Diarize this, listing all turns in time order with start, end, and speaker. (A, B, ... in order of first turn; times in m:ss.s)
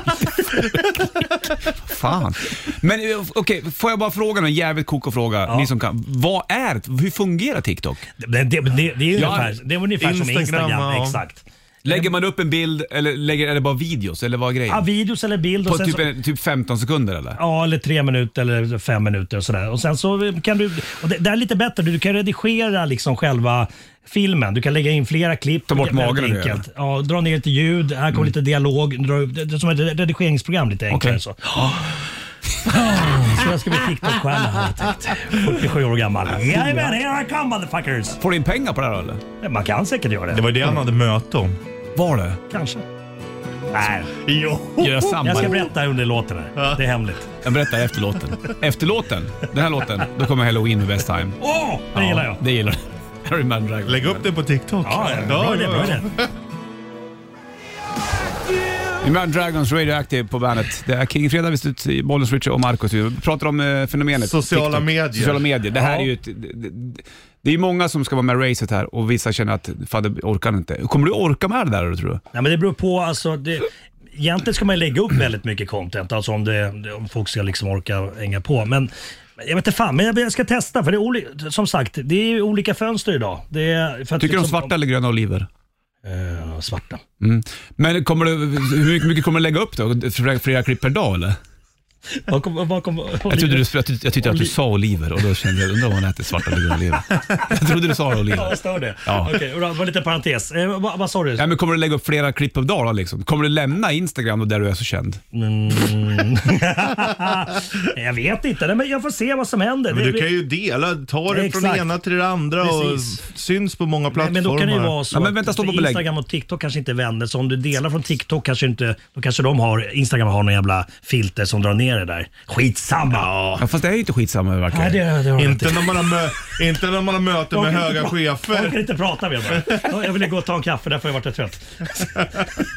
0:01.6-0:08.0 A
0:08.2-0:12.1 B
0:09.1-0:09.6 A
0:10.0-0:11.2 C
0:11.8-0:14.8 A
0:14.7-0:16.1 B
0:15.6-0:17.4 A
0:17.4-0:32.1 B
0:25.7-0:26.6 A
0:30.9-0:31.2 A
0:32.6-0:38.2 B
0:38.2-0:39.2 A
0:39.4-0:40.5 B
0:40.3-0:41.6 C
0:41.9-0:42.4 A
0:42.5-0:42.8 B
0:43.7-0:44.1 B
0:44.1-0:45.6 C
0:44.8-0:45.6 A
0:45.2-0:47.3 B
0:46.6-0:46.8 C
0:47.4-0:51.4 A
0:51.4-0:52.4 B
0:51.9-0:54.2 A
0:53.8-0:56.3 C
0:54.8-0:56.1 B
0:59.0-1:12.2 A
1:04.2-1:05.5 C
1:05.7-1:06.1 B
1:12.3-1:24.7 B
1:24.2-1:25.5 A
1:26.0-1:27.0 B
1:27.2-1:31.4 A
1:32.2-1:34.5 B
1:33.3-1:39.4 A
1:38.3-1:41.4 B
1:41.4-1:45.2 A
1:45.3-1:50.3 B
1:49.9-1:55.0 C
1:51.3-1:51.9 B
1:52.6-1:53.2 B
1:54.1-2:03.3 B
1:55.1-1:56.0 A
2:03.1-2:03.6 C
2:03.6-2:05.0 A
2:04.7-2:06.1 B
2:05.4-2:08.8 C
2:07.5-2:12.4 B
2:09.6-2:09.8 C